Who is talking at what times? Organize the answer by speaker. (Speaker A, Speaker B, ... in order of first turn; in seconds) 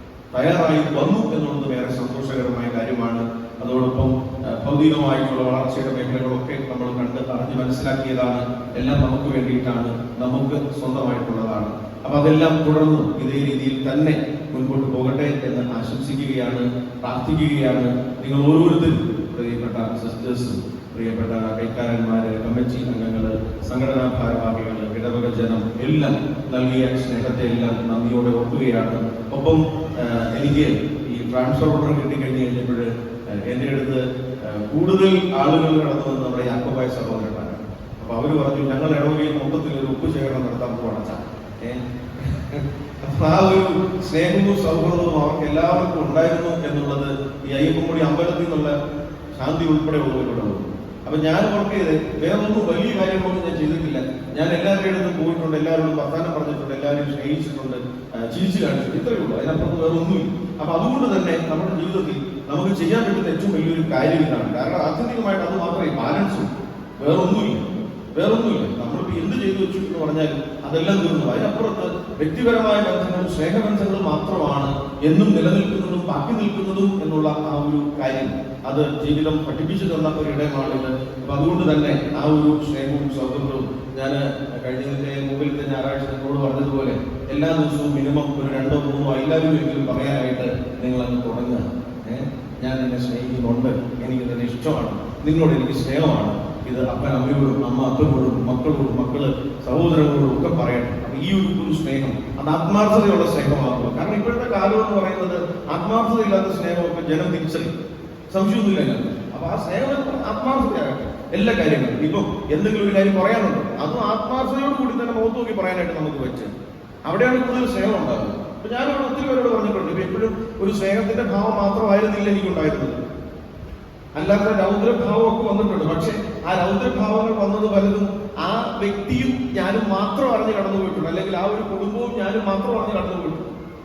Speaker A: 0.3-48.8, 49.3-107.7, 108.3-116.5, 117.0-123.0, 124.2-133.5